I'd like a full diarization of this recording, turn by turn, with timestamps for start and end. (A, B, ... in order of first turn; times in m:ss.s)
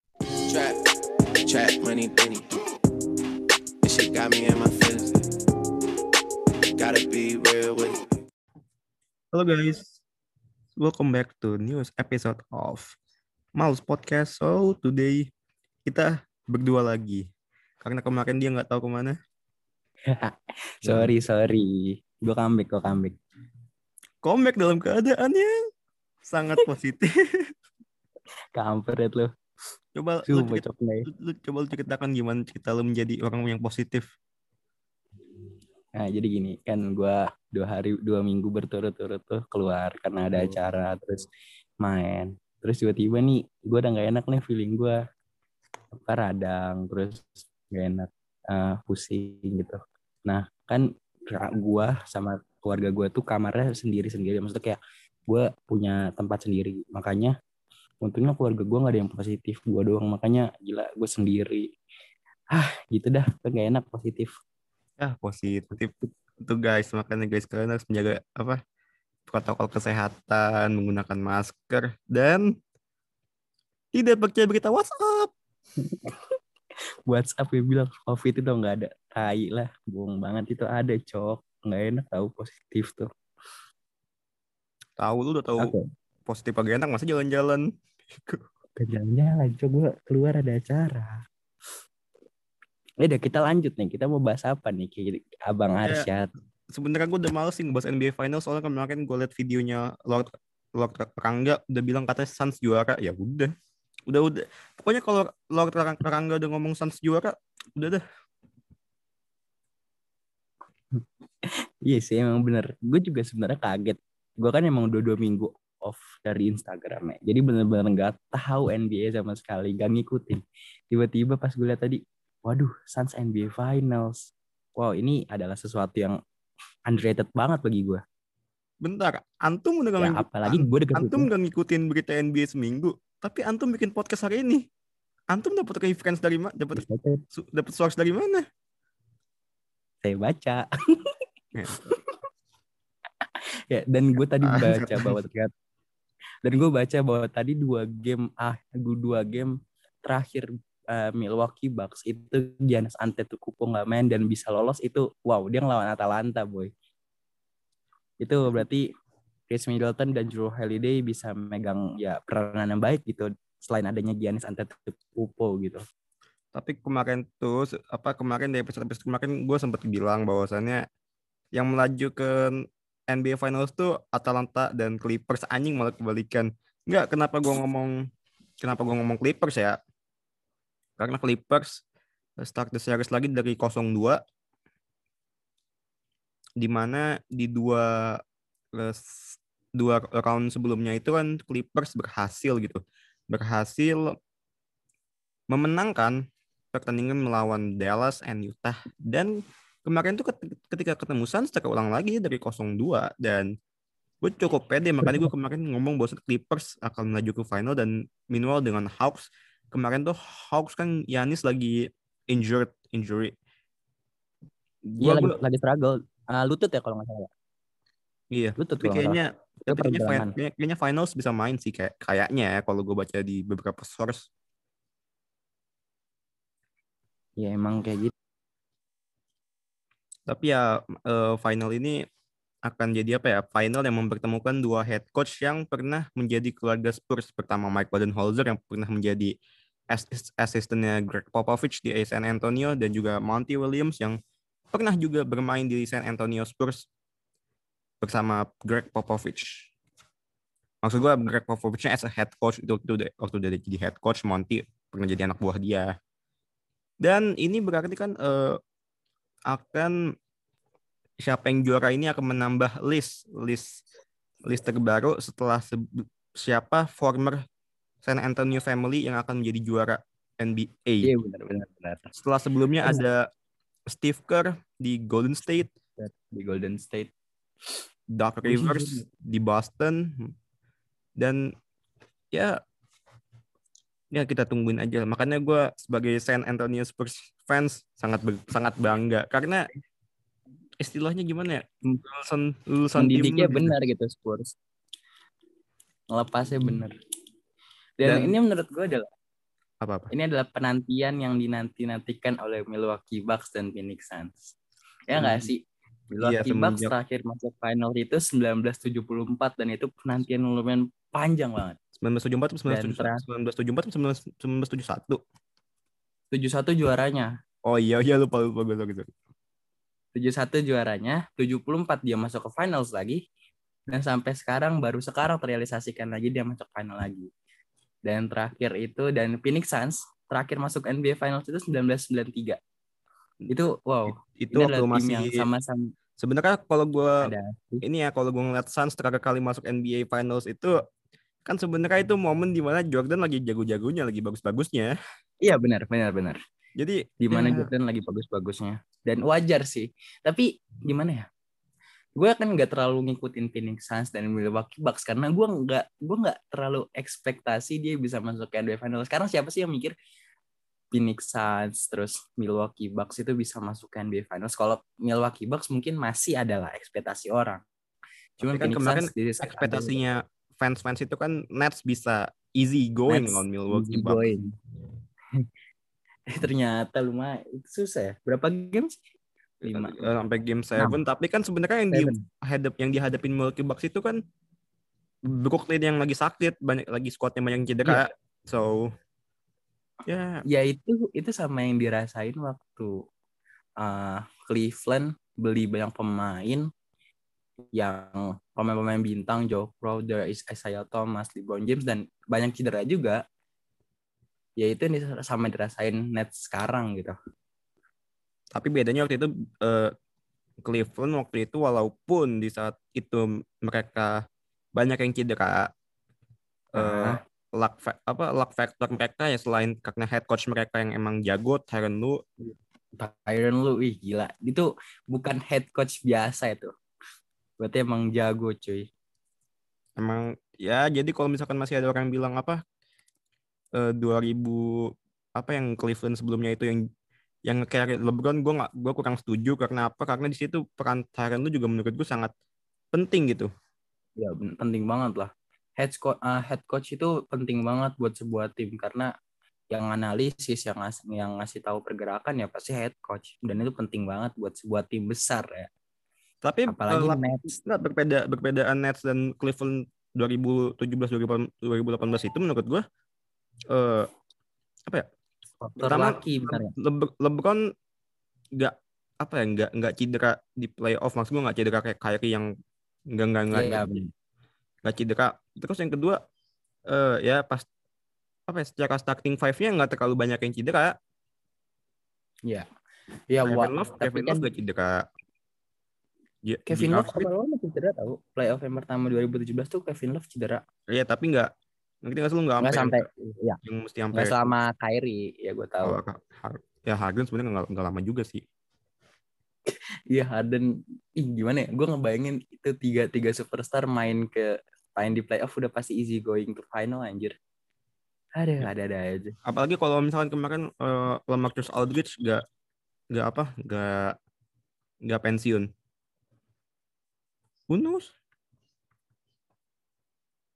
0:00.5-0:00.8 A
0:01.4-0:02.4 A
0:03.8-0:05.1 A
0:06.8-0:08.0 A
0:09.3-0:10.0 B
0:10.8-0:13.0 B
0:13.6-0:15.3 B
0:15.9-0:17.3 B
0:17.8-0:19.2 B
0:20.1-0:23.2 C
0:20.8-0:21.1 B
0:24.2-0:25.5 B
0:26.3-0:27.5 B
0:28.6-0:29.3 C
0:30.0-0:34.1 B
0:30.3-0:31.1 C
0:36.0-0:41.3 C
0:41.8-0:45.0 C
0:45.9-0:57.3 C
0:58.0-1:01.7 C
1:02.5-1:04.3 C
1:05.0-1:08.6 B
1:09.3-1:12.5 B
1:13.9-1:15.3 B
1:15.8-1:16.2 C
1:17.1-1:23.1 C
1:25.0-1:25.7 B
1:25.6-1:25.9 C
1:26.3-1:27.7 B
1:28.8-1:31.2 C
1:33.0-1:36.3 C
1:36.7-1:43.5 B
1:44.1-1:48.0 B
1:51.0-2:06.2 C
2:06.9-2:08.0 C
2:08.8-2:14.6 B
2:10.0-2:11.3 C
2:15.3-2:18.4 B
2:16.7-2:17.2 C
2:20.0-2:21.1 C
2:21.6-2:21.9 B
2:23.7-2:25.5 C
2:24.4-2:25.1 B
2:26.4-2:36.7 C
2:38.2-2:38.8 C
2:39.5-2:45.8 C
2:46.5-2:50.8 B
2:51.5-2:58.0 B
2:58.6-2:59.8 B
3:01.0-3:01.8 B
3:02.4-3:04.2 B
3:06.6-3:08.2 B
3:08.7-3:14.1 B
3:15.5-3:16.2 B
3:16.7-3:23.5 B
3:24.2-3:33.3 B
3:34.9-3:35.4 B
3:35.0-3:37.3 C
3:38.3-3:44.3 B
3:38.6-3:40.3 C
3:47.4-3:48.1 C
3:50.3-3:52.0 B
3:52.6-3:59.3 B
3:59.9-4:04.2 B
4:04.7-4:06.9 B
4:08.0-4:09.7 B
4:10.8-4:15.9 B
4:17.0-4:18.6 B
4:19.5-4:19.9 B
4:21.2-4:23.8 B
4:24.5-4:27.4 B
4:28.0-4:31.1 B
4:31.0-4:32.1 C
4:32.2-4:33.3 B
4:33.9-4:35.7 B
4:36.0-4:37.1 C
4:38.1-4:40.3 B
4:38.4-4:39.0 C
4:41.2-4:41.5 B
4:42.3-4:42.6 B
4:44.1-4:49.7 B
4:50.8-4:53.7 B
4:53.0-4:54.5 C
4:56.1-4:57.0 C
4:58.0-4:59.1 C
4:58.0-4:58.3 B
4:59.8-5:00.1 B
5:00.1-5:04.6 C
5:05.1-5:05.6 C
5:05.2-5:05.5 B
5:06.2-5:11.8 C
5:06.2-5:06.9 B
5:12.0-5:15.2 B
5:12.7-5:13.2 C
5:16.3-5:17.3 C
5:17.6-5:19.1 B
5:20.2-5:23.2 C
5:23.9-5:27.3 C
5:28.0-5:32.6 C
5:33.5-5:35.9 C
5:34.2-5:35.4 B
5:36.2-5:37.3 B
5:37.2-5:37.8 C
5:37.8-5:40.8 B
5:41.5-5:45.0 B
5:45.4-5:46.4 C
5:46.8-5:47.7 B
5:47.2-5:51.3 C
5:52.2-5:59.9 C
6:00.9-6:07.6 C
6:08.4-6:10.0 C
6:08.5-6:14.3 B
6:13.1-6:14.5 C
6:16.3-6:19.0 C
6:19.6-6:20.1 C
6:19.6-6:24.2 B
6:21.9-6:22.2 C
6:25.3-6:28.9 B
6:30.1-6:30.4 B
6:30.5-6:33.0 C
6:33.8-6:36.7 C
6:37.7-6:43.2 C
6:44.6-6:47.2 C
6:48.5-6:49.9 B
6:50.6-6:54.2 B
6:54.8-6:55.7 B
6:56.8-7:02.3 B
6:56.8-6:57.2 C
7:03.0-7:06.7 C
7:07.6-7:08.9 C
7:10.0-7:12.6 B
7:13.8-7:16.9 B
7:17.5-7:22.3 B
7:22.9-7:23.5 B
7:24.2-7:29.1 C
7:29.7-7:35.7 C
7:36.4-7:42.8 B
7:36.7-7:37.5 C
7:43.7-7:44.1 B
7:45.6-7:46.7 C
7:45.8-7:47.7 B
7:48.6-7:52.5 B
7:53.1-7:54.0 B
7:53.5-7:54.1 C
7:54.8-7:56.2 B
7:56.9-7:57.6 B
7:58.5-8:01.0 B
8:03.3-8:04.4 C
8:03.5-8:05.1 B
8:06.4-8:07.3 B
8:06.7-8:10.6 C
8:10.9-8:11.5 B
8:12.0-8:13.0 B
8:12.6-8:13.6 C
8:13.6-8:14.5 B
8:14.1-8:16.0 C
8:15.8-8:18.4 B
8:19.7-8:27.3 C
8:28.4-8:29.4 C
8:29.4-8:32.4 B
8:33.1-8:34.2 B
8:35.0-8:35.7 B
8:37.7-8:38.1 B